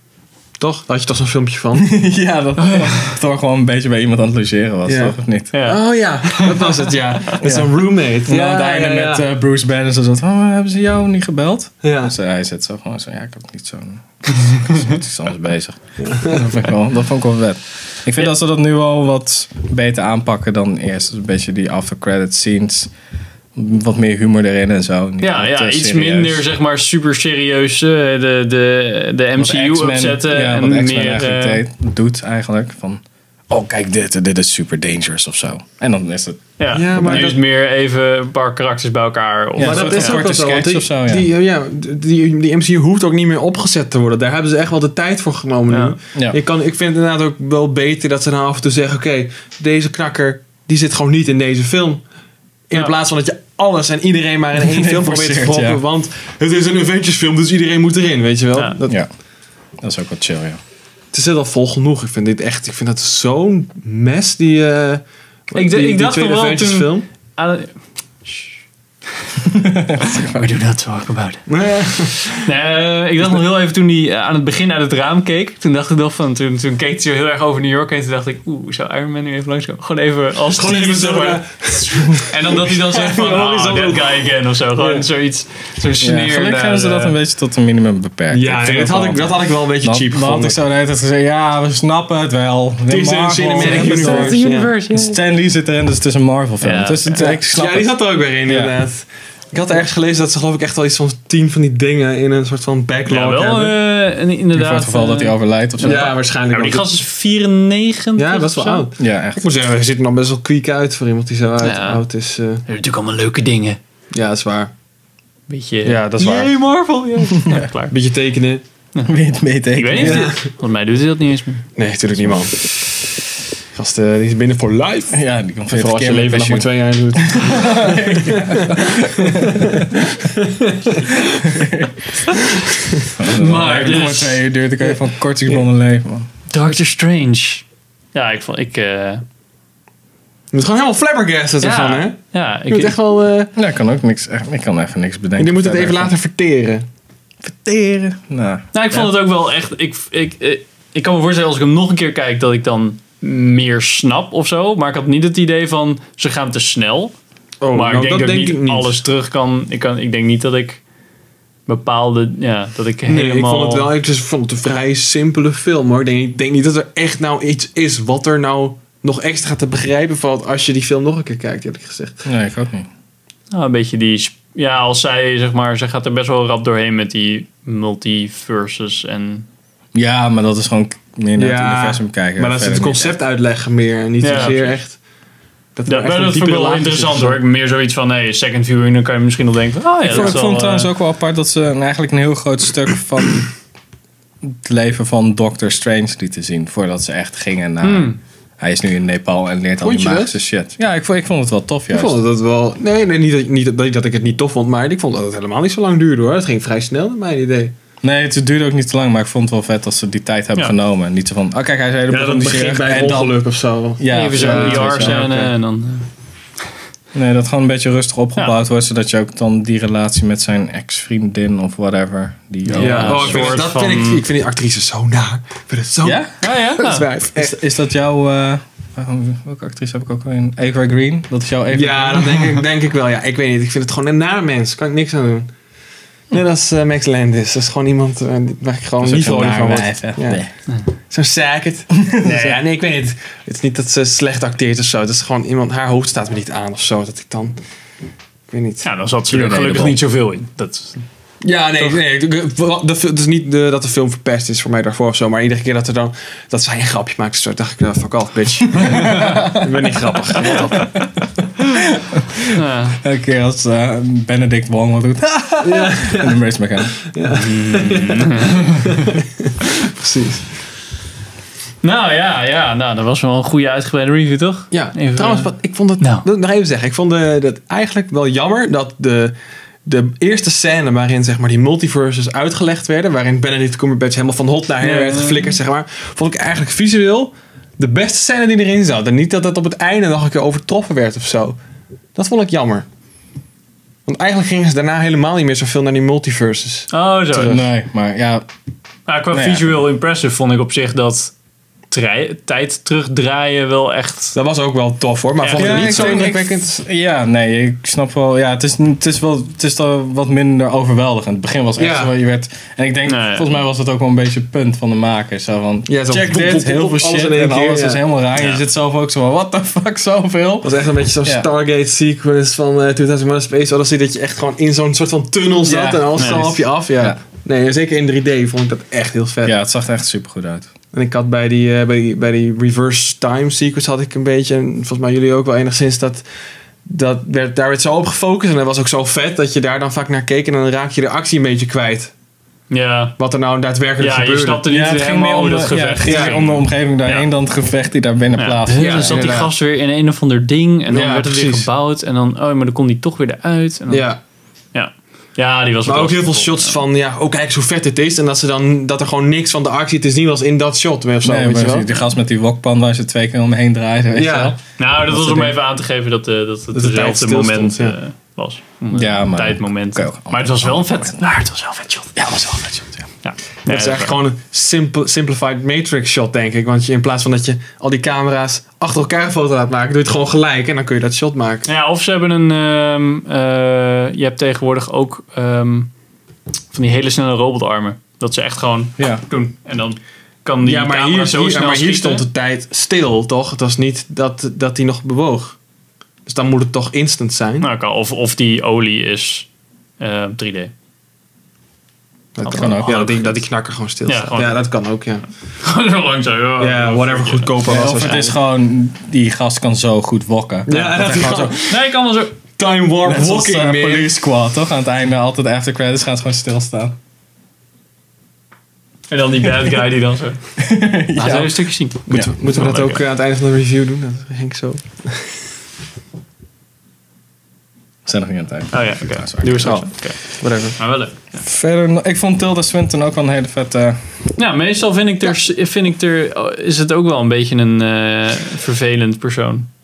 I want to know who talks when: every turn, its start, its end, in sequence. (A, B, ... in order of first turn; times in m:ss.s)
0:00.6-0:01.9 A
0:01.8-0:05.5 B
0:02.6-0:03.2 C
0:04.9-0:09.3 A
0:05.5-0:06.8 C
0:07.4-0:07.7 B
0:08.3-0:22.9 B
0:11.8-0:12.1 A
0:14.5-0:14.8 C
0:16.0-0:16.5 A
0:23.6-0:26.4 B
0:25.2-0:31.6 C
0:29.4-0:36.4 B
0:36.6-0:40.3 C
0:36.7-0:37.4 A
0:37.0-0:37.3 B
0:39.6-0:41.3 B
0:39.6-0:52.0 A
0:45.7-0:46.0 C
0:52.7-0:59.0 A
0:54.6-0:55.8 B
0:59.8-1:00.6 B
1:01.1-1:07.1 A
1:05.5-1:08.6 C
1:09.4-1:10.5 B
1:10.0-1:11.5 C
1:11.5-1:12.4 A
1:12.0-1:27.2 C
1:20.5-1:25.1 A
1:26.0-1:34.4 B
1:28.3-1:30.6 A
1:32.9-1:34.7 A
1:33.6-1:35.2 C
1:34.9-1:37.9 B
1:36.6-1:37.2 C
1:37.1-1:43.8 A
1:38.5-1:38.7 B
1:43.1-1:48.8 C
1:44.5-1:46.2 B
1:45.8-1:47.0 A
1:48.2-1:52.6 A
1:49.0-1:49.5 B
1:51.6-1:52.0 C
1:52.7-1:53.8 C
1:54.1-1:54.7 A
1:55.5-1:57.9 C
1:55.8-1:56.5 A
1:57.9-1:58.6 A
1:59.1-2:00.3 B
1:59.7-2:01.7 C
2:00.0-2:00.5 A
2:01.8-2:02.8 A
2:03.7-2:11.7 A
2:05.1-2:09.9 B
2:11.4-2:12.0 B
2:12.3-2:13.1 A
2:13.2-2:16.3 B
2:13.2-2:14.4 C
2:16.5-2:19.2 C
2:20.5-2:23.5 A
2:21.6-2:23.0 C
2:23.6-2:26.1 B
2:25.4-2:26.9 A
2:27.4-2:29.1 B
2:28.7-2:37.1 C
2:37.6-2:39.0 A
2:37.7-2:40.8 C
2:41.7-2:43.9 C
2:43.1-2:52.2 A
2:52.2-2:52.9 B
2:53.5-2:59.5 C
2:59.9-3:03.2 B
3:01.4-3:05.0 A
3:04.2-3:04.8 C
3:05.8-3:07.4 A
3:05.9-3:10.9 C
3:10.1-3:10.4 A
3:10.1-3:13.5 B
3:14.4-3:22.2 B
3:17.8-3:18.2 C
3:19.8-3:20.4 A
3:21.9-3:27.7 A
3:28.0-3:33.4 B
3:32.1-3:35.5 A
3:34.0-3:35.2 B
3:34.1-3:36.1 C
3:37.1-3:43.5 B
3:42.7-3:44.2 C
3:42.7-3:47.6 A
3:46.0-3:46.3 B
3:46.4-3:47.1 C
3:47.4-3:52.6 B
3:51.7-3:55.5 A
3:56.3-4:00.4 A
3:59.0-4:00.5 B
4:01.1-4:07.6 A
4:02.0-4:02.6 B
4:08.5-4:08.9 A
4:08.8-4:11.0 C
4:09.3-4:10.0 B
4:11.4-4:21.0 A
4:18.9-4:19.7 B
4:18.9-4:19.3 C
4:20.5-4:27.0 B
4:22.5-4:23.0 C
4:25.6-4:26.4 A
4:27.0-4:30.5 A
4:27.3-4:29.2 C
4:31.8-4:36.3 C
4:34.7-4:39.4 A
4:39.9-4:51.6 A
4:44.8-4:45.6 C
4:52.2-4:52.9 A
4:54.1-4:57.6 A
4:56.9-4:57.6 C
4:57.4-4:58.4 B
4:59.1-5:01.3 C
4:59.3-4:59.8 B
5:01.9-5:04.4 C
5:04.4-5:06.8 A
5:05.4-5:06.2 C
5:05.6-5:20.7 B
5:11.8-5:12.1 A
5:13.1-5:13.5 C
5:15.9-5:18.0 A
5:18.4-5:18.6 C
5:20.6-5:29.6 A
5:25.6-5:27.2 B
5:26.2-5:26.6 C
5:29.4-5:30.7 B
5:30.9-5:36.2 A
5:36.9-5:42.1 A
5:42.7-5:43.2 C
5:43.2-5:44.6 A
5:44.0-5:47.3 C
5:44.7-5:49.3 B
5:46.1-5:46.4 A
5:48.4-5:54.1 C
5:48.8-5:49.5 A
5:50.9-5:51.7 A
5:53.9-5:54.2 A
5:54.7-5:56.8 C
5:55.8-6:01.9 A
6:01.2-6:04.6 B
6:04.2-6:04.6 A
6:04.8-6:12.2 C
6:05.2-6:05.5 A
6:06.7-6:08.0 A
6:08.9-6:11.3 B
6:12.2-6:13.1 B
6:13.2-6:14.2 C
6:13.7-6:21.7 A
6:21.7-6:25.9 C
6:26.7-6:32.2 C
6:30.6-6:35.6 A
6:36.3-6:37.7 A
6:37.6-6:39.5 C
6:40.0-6:40.7 C
6:42.4-6:45.2 A
6:42.4-6:43.3 C
6:42.5-6:43.2 B
6:44.1-6:44.6 C
6:45.6-6:48.2 C
6:46.6-6:48.4 A
6:47.6-6:51.6 B
6:50.7-6:51.9 A
6:51.7-6:52.4 C
6:52.6-6:54.1 A
6:53.0-6:57.0 B
6:59.1-7:00.4 C
7:00.6-7:02.3 B
7:01.2-7:03.0 C
7:02.1-7:05.4 A
7:08.0-7:09.9 B
7:08.7-7:11.4 C
7:10.4-7:10.8 A
7:11.4-7:14.0 B
7:14.4-7:19.7 C